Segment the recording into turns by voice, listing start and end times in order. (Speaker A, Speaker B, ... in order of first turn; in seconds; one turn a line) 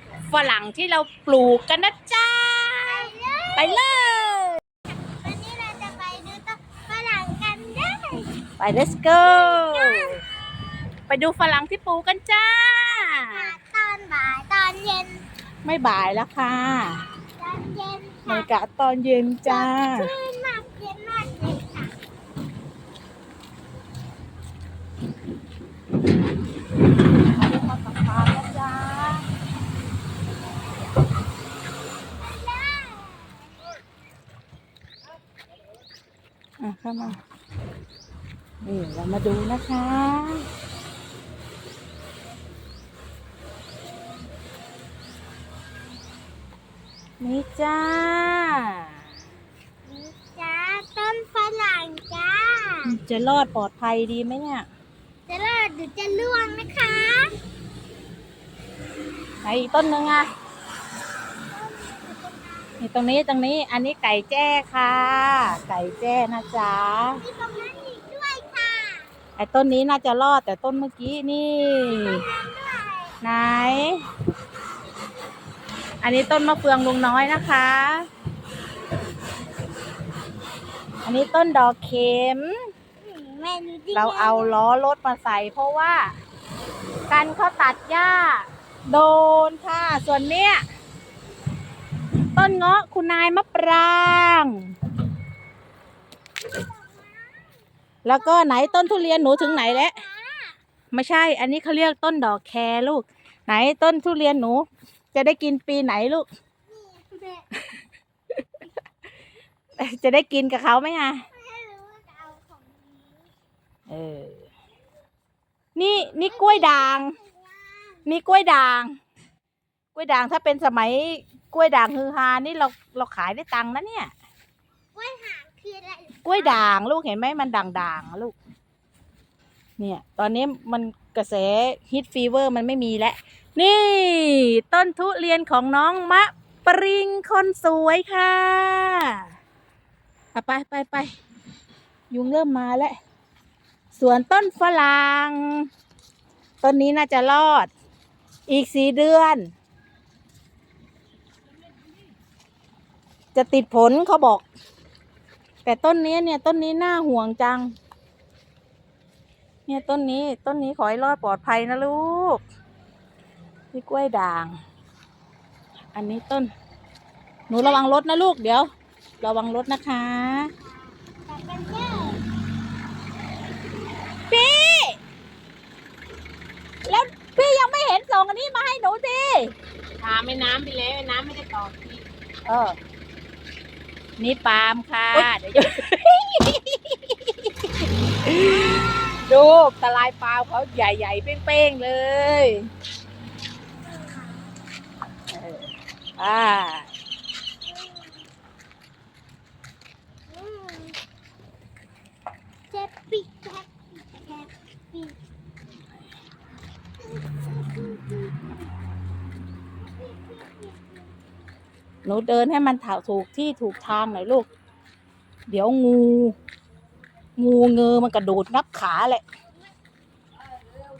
Speaker A: 0.3-4.6
Speaker B: 2.9-3.9
Speaker B: 5.0-8.3
Speaker A: 8.6-10.2
Speaker B: 9.2-10.2
Speaker A: 11.1-13.5
Speaker B: 12.8-15.2
Speaker A: 15.6-17.0
Speaker B: 17.4-18.5
Speaker A: 18.3-20.1
Speaker B: 19.4-21.9
Speaker A: 27.3-29.3
Speaker B: 32.2-33.5
Speaker A: 36.6-37.2
Speaker A: 38.6-40.5
Speaker A: 47.2-48.9
Speaker B: 49.8-53.0
Speaker A: 52.8-54.6
Speaker B: 55.3-57.3
Speaker A: 59.4-60.3
Speaker B: 61.5-62.8
Speaker A: 62.8-67.2
Speaker B: 67.2-69.1
Speaker A: 69.4-72.2
Speaker B: 71.8-73.2
Speaker A: 73.2-74.0
Speaker A: 76.0-78.0
Speaker A: 81.0-82.7
Speaker B: 83.0-84.6
Speaker A: 83.9-86.1
Speaker A: 87.1-90.6
Speaker A: 92.3-94.7
Speaker B: 96.4-97.5
Speaker A: 98.0-100.0
Speaker B: 98.1-100.6
Speaker A: 100.9-106.3
Speaker B: 106.7-107.4
Speaker A: 109.8-111.2
Speaker B: 111.3-113.3
Speaker A: 113.9-114.5
Speaker A: 115.7-117.1
Speaker B: 116.0-118.0
Speaker A: 118.0-118.9
Speaker A: 119.9-124.1
Speaker B: 124.9-126.6
Speaker A: 126.2-128.3
Speaker A: 129.8-139.2
Speaker A: 140.3-141.1
Speaker A: 142.1-143.0
Speaker A: 143.9-145.7
Speaker A: 146.6-147.7
Speaker A: 148.5-149.5
Speaker A: 153.3-154.4
Speaker A: 155.6-157.7
Speaker A: 159.7-162.4
Speaker A: 163.7-164.6
Speaker A: 165.9-166.5
Speaker A: 167.5-168.7
Speaker A: 169.2-170.5
Speaker B: 170.6-172.2
Speaker A: 174.3-175.0
Speaker A: 176.9-179.5
Speaker C: 180.0-182.0
Speaker A: 180.1-181.2
Speaker A: 182.4-182.8
Speaker A: 184.2-187.5
Speaker A: 188.2-192.7
Speaker B: 188.5-189.1
Speaker B: 193.9-194.4
Speaker A: 195.3-196.9
Speaker B: 197.7-198.1
Speaker B: 200.3-201.0
Speaker B: 202.7-205.2
Speaker B: 207.0-208.5
Speaker B: 210.0-211.1
Speaker A: 212.0-214.5
Speaker A: 215.5-216.3
Speaker A: 217.4-219.2